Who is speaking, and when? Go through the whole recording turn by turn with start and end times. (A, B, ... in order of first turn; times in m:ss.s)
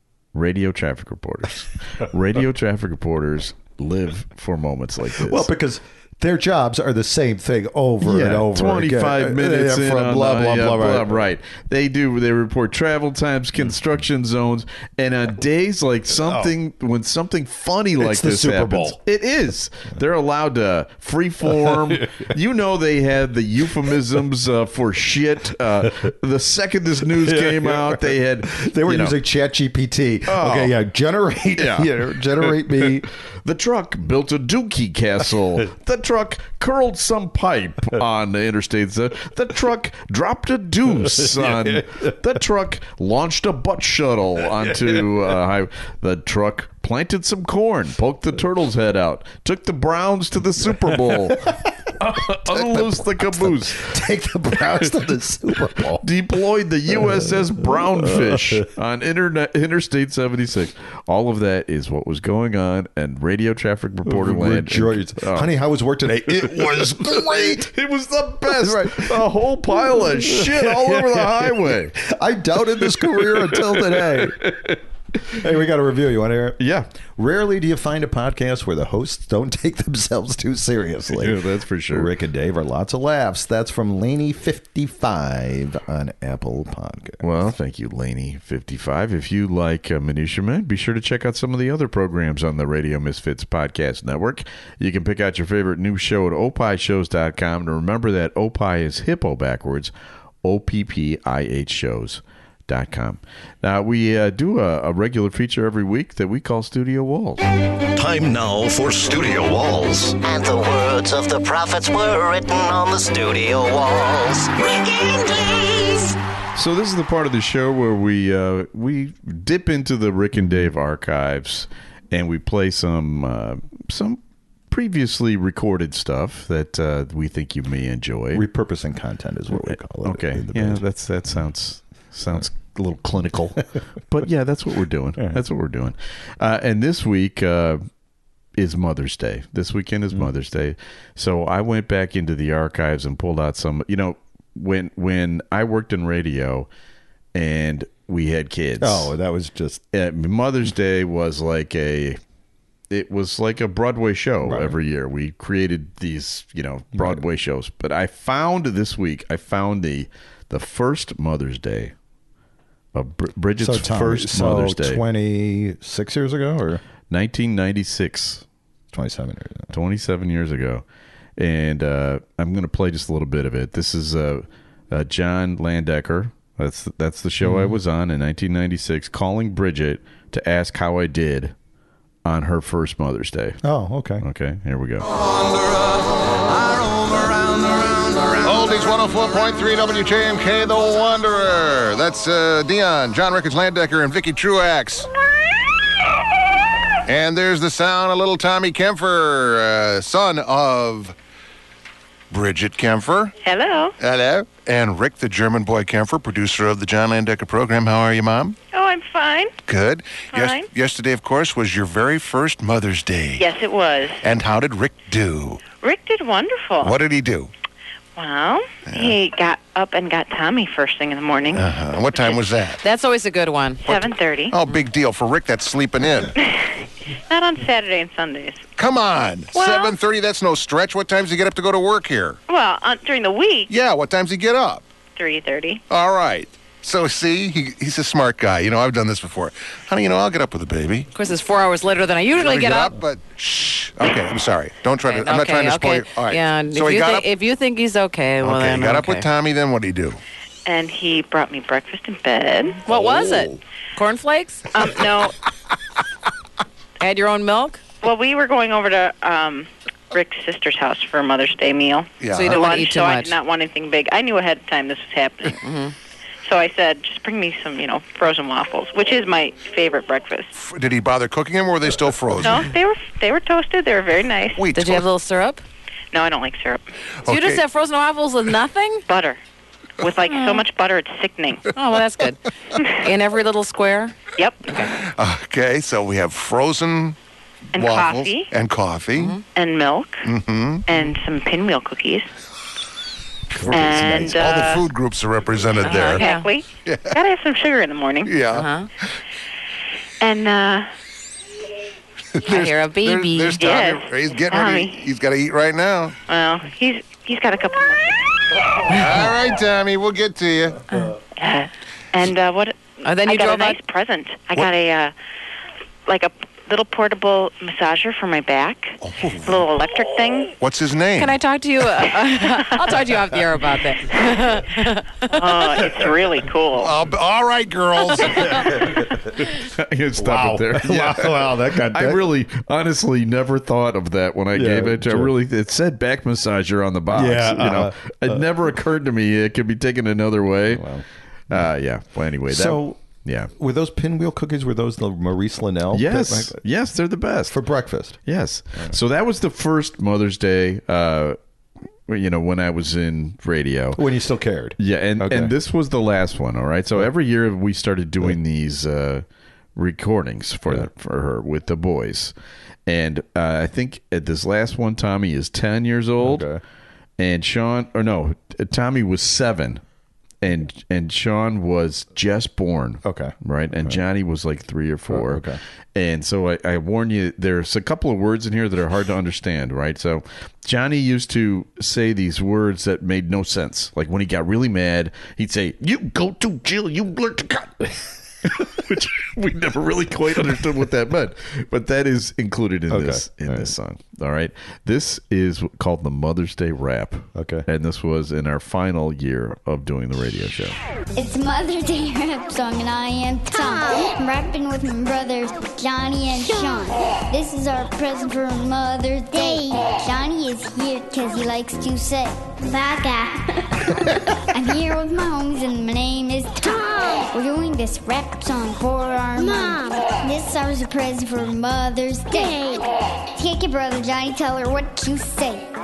0:00.3-0:05.5 A
0:05.1-0:11.2 B
0:08.0-0:29.2 A
0:16.2-0:16.5 B
0:18.0-0:19.0 B
0:21.5-0:22.2 B
0:27.1-0:33.1 B
0:30.3-0:30.8 A
0:31.6-0:54.0 A
0:41.2-0:42.0 B
0:50.9-0:56.1 B
0:56.0-1:05.5 A
0:57.0-0:58.6 B
1:04.1-1:07.7 B
1:06.6-1:12.0 A
1:08.5-1:14.6 B
1:13.0-1:14.8 A
1:15.3-1:16.6 B
1:16.6-1:16.9 A
1:17.2-1:27.3 B
1:21.2-1:22.1 A
1:27.2-1:39.9 A
1:40.4-1:47.4 A
1:48.0-1:50.2 C
1:50.2-1:56.1 D
1:56.6-2:04.2 A
2:00.4-2:00.7 B
2:04.7-2:08.4 A
2:08.3-2:10.8 B
2:09.6-2:17.8 A
2:18.6-2:26.7 A
2:27.3-2:29.1 A
2:28.8-2:29.8 B
2:29.9-2:32.2 A
2:32.9-2:41.9 A
2:34.4-2:34.8 B
2:36.9-2:37.2 B
2:42.9-2:45.0 A
2:43.6-2:46.8 B
2:47.1-2:48.4 A
2:48.9-2:49.7 B
2:49.7-2:50.8 A
2:51.4-3:01.5 A
2:57.4-2:57.8 B
3:02.2-3:03.6 A
3:03.6-3:04.2 B
3:04.2-3:05.1 A
3:08.4-3:15.1 E
3:17.1-3:21.2 E
3:22.3-3:23.3 E
3:23.4-3:24.0 F
3:24.0-3:28.6 E
3:28.7-3:29.6 F
3:29.7-3:33.4 E
3:30.3-3:30.7 F
3:33.4-3:34.2 F
3:34.2-3:35.7 E
3:35.8-3:37.0 F
3:36.8-3:37.5 E
3:38.2-3:41.7 F
3:38.9-3:39.2 E
3:41.5-3:42.8 E
3:42.8-3:43.8 G
3:43.8-3:44.6 F
3:43.9-3:46.3 E
3:46.4-3:46.7 F
3:47.3-3:48.6 F
3:48.8-3:52.4 E
3:49.5-3:50.0 F
3:52.5-3:53.7 F
3:53.7-3:54.9 E
3:55.2-3:55.8 F
3:55.9-4:01.1 E
4:01.2-4:03.0 G
4:02.3-4:07.3 E
4:05.0-4:09.3 G
4:08.4-4:10.2 E
4:10.7-4:12.8 F
4:12.9-4:14.7 G
4:12.9-4:13.5 E
4:14.7-4:15.4 F
4:17.0-4:17.8 G
4:18.0-4:25.6 F
4:22.2-4:22.6 E
4:22.3-4:23.4 G
4:25.6-4:25.9 G
4:26.4-4:30.6 F
4:30.6-4:32.7 E
4:32.4-4:34.7 F
4:34.6-4:35.1 E
4:34.7-4:35.6 G
4:36.1-4:36.8 F
4:37.2-4:37.6 E
4:37.3-4:39.0 G
4:39.1-4:39.4 F
4:40.0-4:41.7 F
4:40.3-4:40.6 G
4:41.8-4:42.4 G
4:43.0-4:44.9 G
4:44.4-4:44.7 F
4:45.0-4:47.2 E
4:47.7-4:48.5 F
4:47.7-4:49.4 E
4:49.2-4:49.4 G
4:49.5-4:50.3 F
4:50.2-4:50.8 E
4:50.9-4:52.3 F
4:53.6-4:54.4 B
4:53.7-4:56.3 E
4:53.7-4:54.9 F
4:55.8-4:58.4 F
4:55.9-4:56.5 G
4:56.8-4:57.2 E
4:58.2-4:58.7 E
4:58.5-4:58.9 G
5:00.2-5:00.9 F
5:02.4-5:06.2 E
5:02.5-5:03.7 G
5:03.6-5:05.0 F
5:06.3-5:08.3 F
5:08.9-5:10.8 E
5:11.0-5:15.1 F
5:13.0-5:13.8 G
5:16.1-5:20.6 F
5:19.1-5:19.5 E
5:20.6-5:21.4 E
5:21.2-5:25.8 G
5:25.3-5:27.0 F
5:26.8-5:28.8 E
5:28.5-5:29.2 B
5:29.4-5:40.9 A
5:30.2-5:32.3 B
5:34.5-5:35.3 B
5:37.1-5:38.5 B
5:40.7-5:41.7 B
5:41.5-5:43.5 A
5:42.5-5:43.0 B
5:43.6-5:46.6 B
5:45.9-5:47.6 A
5:47.5-5:48.2 B
5:48.3-5:51.4 A
5:52.1-5:54.0 A
5:54.0-5:55.5 B
5:54.8-5:59.2 A
5:59.8-6:02.3 A
6:02.9-6:06.5 A
6:06.2-6:06.6 B
6:07.2-6:09.8 A
6:10.4-6:40.8 A
6:13.0-6:14.0 B
6:15.1-6:15.6 B
6:32.9-6:33.7 B
6:37.4-6:37.7 B
6:41.2-6:52.6 H
6:43.5-6:44.1 D
6:46.5-6:46.8 D
6:49.4-6:49.8 D
6:52.7-6:53.2 D
6:53.8-7:02.6 H
6:56.7-6:57.3 D
6:59.4-7:00.1 D
7:02.3-7:02.8 D
7:03.4-7:05.7 H